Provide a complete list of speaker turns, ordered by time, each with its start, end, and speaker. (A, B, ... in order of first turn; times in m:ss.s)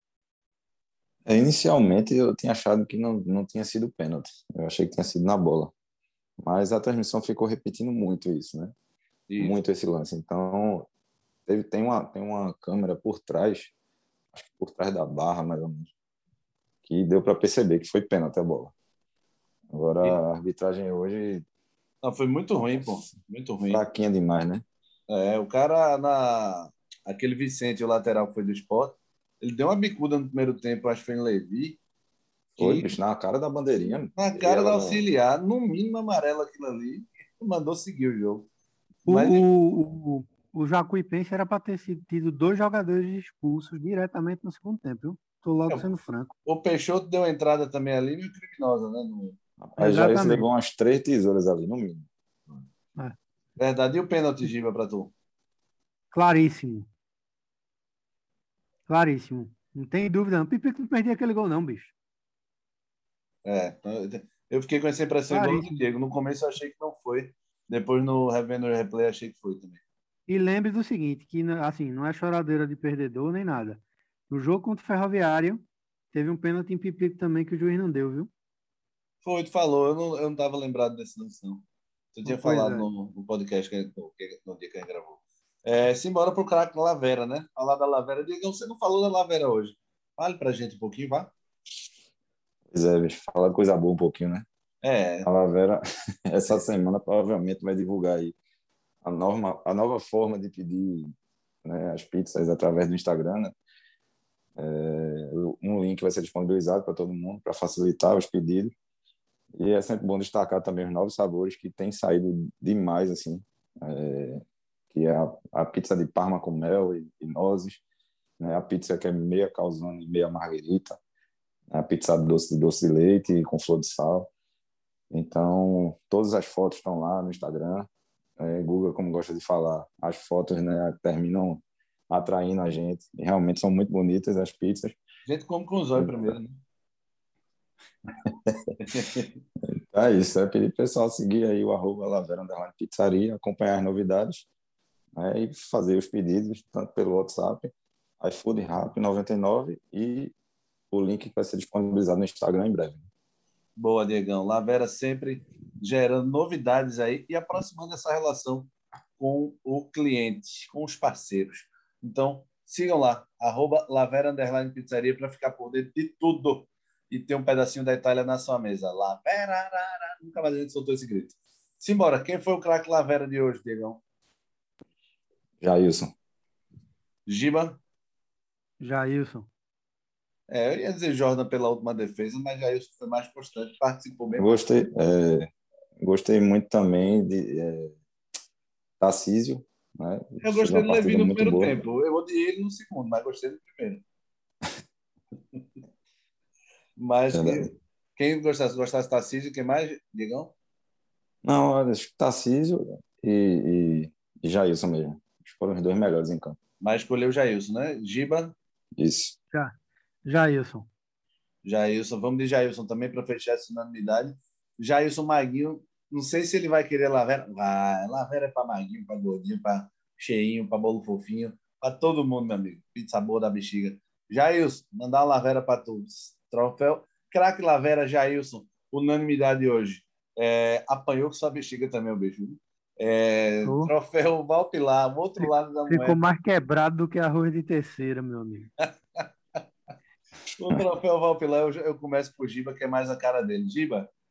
0:01.2-0:05.7 A
0:06.4-0:08.7 A
0:09.3-0:09.6 B
0:09.4-0:10.9 A
0:11.5-0:13.7 A
0:14.3-0:15.9 A
0:16.8-0:18.7 A
0:19.7-0:21.4 A
0:22.0-0:23.8 B
0:22.6-0:23.0 A
0:23.6-0:24.6 A
0:25.1-0:31.8 B
0:32.6-0:32.9 B
0:32.6-0:35.0 A
0:34.1-0:38.5 B
0:39.0-0:39.4 B
0:39.1-0:46.3 C
0:46.4-0:49.4 B
0:49.6-0:52.1 A
0:49.8-0:50.5 C
0:53.6-0:55.1 B
0:56.1-0:56.9 C
0:58.9-1:01.9 C
1:03.4-1:09.8 B
1:05.3-1:05.7 C
1:10.3-1:18.3 C
1:19.2-1:31.3 B
1:22.2-1:22.9 C
1:32.7-1:34.4 A
1:34.8-1:35.3 B
1:35.2-1:38.4 A
1:39.0-1:43.5 A
1:44.6-1:48.7 A
1:49.5-1:57.8 A
1:58.4-2:01.0 A
2:01.7-2:04.3 A
2:05.1-2:15.0 A
2:15.2-2:16.6 B
2:16.0-2:16.4 A
2:18.2-2:18.8 A
2:18.8-2:19.3 B
2:19.7-2:24.5 A
2:25.2-2:30.3 A
2:30.9-2:33.0 A
2:33.8-2:54.0 B
2:55.6-2:56.1 A
2:57.2-2:57.8 B
2:58.8-2:59.5 C
3:00.5-3:04.6 B
3:04.4-3:05.5 A
3:06.0-3:07.9 A
3:09.0-3:11.8 A
3:10.4-3:14.0 B
3:17.0-3:20.5 B
3:17.3-3:17.7 A
3:21.4-3:26.6 A
3:26.8-3:28.5 B
3:29.0-3:29.4 A
3:30.2-3:30.9 C
3:31.6-3:56.2 B
3:53.6-3:53.9 C
3:55.4-3:58.7 C
3:58.8-3:59.3 B
4:00.6-4:04.1 B